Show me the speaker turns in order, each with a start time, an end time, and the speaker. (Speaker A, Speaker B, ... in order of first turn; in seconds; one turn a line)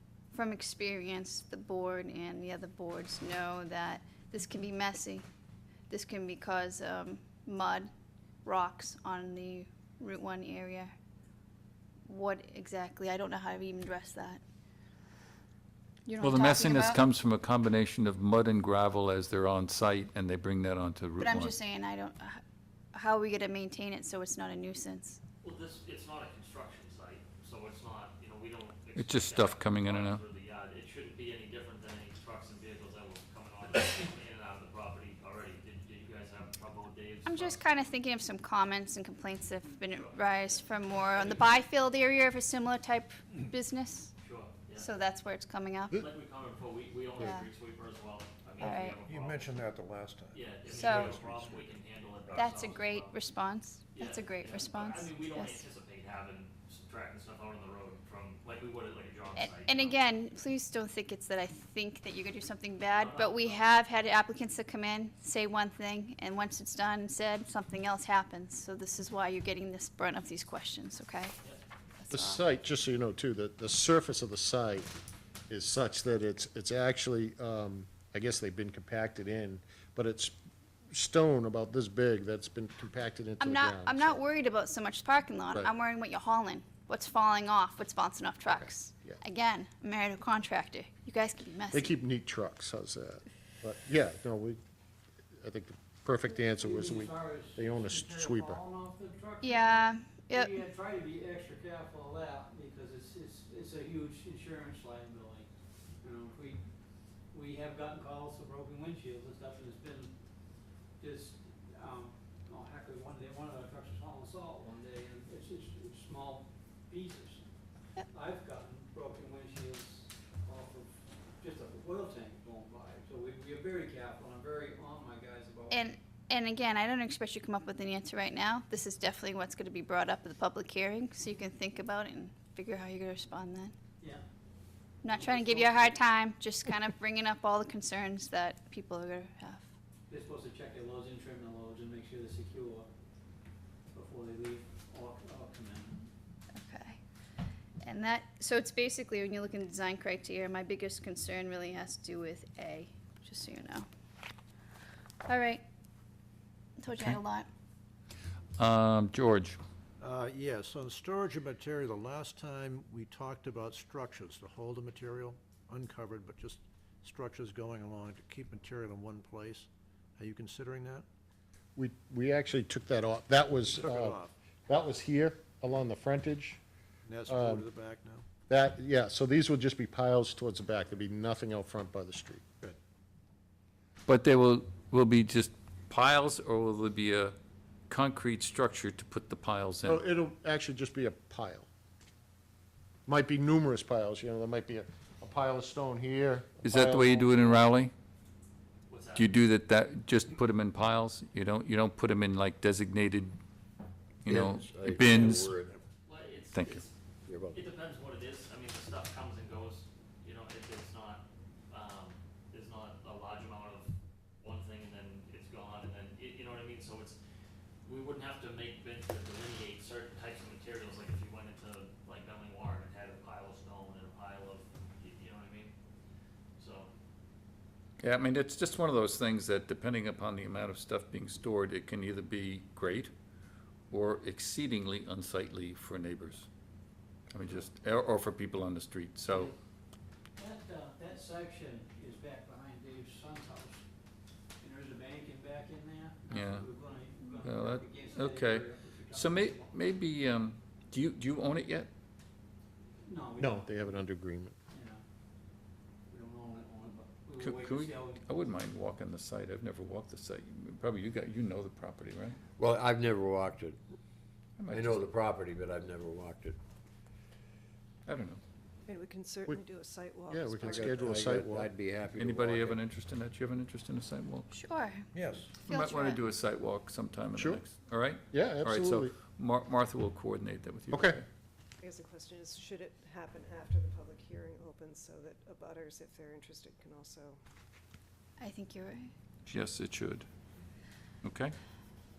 Speaker A: 0.3-5.2
Speaker A: 5.9-7.9
Speaker A: 8.4-10.9
Speaker A: 12.1-14.4
Speaker A: 16.1-17.0
Speaker B: 16.2-21.5
Speaker A: 21.2-22.4
Speaker A: 22.9-25.2
Speaker C: 25.4-37.6
Speaker B: 28.9-30.2
Speaker A: 37.2-44.1
Speaker C: 39.9-41.4
Speaker C: 44.2-44.9
Speaker A: 44.8-46.0
Speaker C: 45.9-49.5
Speaker A: 47.2-47.5
Speaker A: 48.6-49.0
Speaker D: 49.1-51.6
Speaker C: 50.3-53.1
Speaker A: 50.7-51.2
Speaker A: 52.3-55.6
Speaker C: 53.9-60.0
Speaker A: 59.4-71.4
Speaker C: 62.9-63.6
Speaker A: 72.0-72.4
Speaker E: 72.1-74.9
Speaker E: 75.5-80.4
Speaker E: 80.9-84.2
Speaker A: 83.4-91.9
Speaker E: 88.5-89.2
Speaker E: 91.7-94.6
Speaker E: 95.4-98.6
Speaker F: 96.5-105.5
Speaker A: 99.4-100.5
Speaker F: 106.0-106.7
Speaker F: 107.3-110.1
Speaker F: 111.0-125.9
Speaker A: 125.7-133.7
Speaker A: 135.0-139.7
Speaker F: 135.0-136.0
Speaker F: 140.1-142.9
Speaker F: 143.9-146.1
Speaker A: 146.5-147.0
Speaker A: 147.8-153.8
Speaker A: 155.2-155.6
Speaker A: 156.8-157.5
Speaker B: 158.6-159.6
Speaker D: 160.0-171.1
Speaker E: 171.8-176.6
Speaker D: 173.7-174.3
Speaker D: 177.0-178.3
Speaker E: 177.3-177.6
Speaker E: 178.5-182.4
Speaker B: 184.1-187.3
Speaker B: 187.9-190.0
Speaker E: 189.8-191.7
Speaker E: 193.1-197.7
Speaker B: 196.6-197.9
Speaker C: 198.9-199.3
Speaker B: 199.1-203.4
Speaker B: 204.2-205.6
Speaker G: 204.3-205.5
Speaker C: 206.1-206.9
Speaker B: 206.5-206.8
Speaker G: 207.3-207.6
Speaker C: 207.5-217.2
Speaker C: 217.8-225.7
Speaker C: 226.6-226.9
Speaker B: 228.0-233.1
Speaker B: 233.9-236.5
Speaker B: 237.3-239.5
Speaker F: 239.3-239.5
Speaker F: 240.3-243.9
Speaker F: 244.6-249.8
Speaker B: 246.3-246.7
Speaker B: 247.4-251.9
Speaker F: 253.0-254.0
Speaker E: 253.4-254.5
Speaker F: 254.7-255.0
Speaker F: 256.1-258.2
Speaker B: 257.4-262.4
Speaker G: 262.6-263.8
Speaker B: 264.6-265.2
Speaker G: 265.1-266.6
Speaker B: 268.1-268.4
Speaker H: 268.8-271.1
Speaker E: 270.3-271.7
Speaker G: 270.7-272.7
Speaker B: 272.1-274.5
Speaker A: 274.5-275.1
Speaker D: 275.1-275.5
Speaker B: 275.6-281.2
Speaker A: 275.7-276.2
Speaker E: 277.4-277.6
Speaker E: 278.3-279.2
Speaker E: 280.9-281.2
Speaker H: 281.8-287.4
Speaker A: 288.4-289.1
Speaker B: 289.4-290.2
Speaker B: 291.2-291.5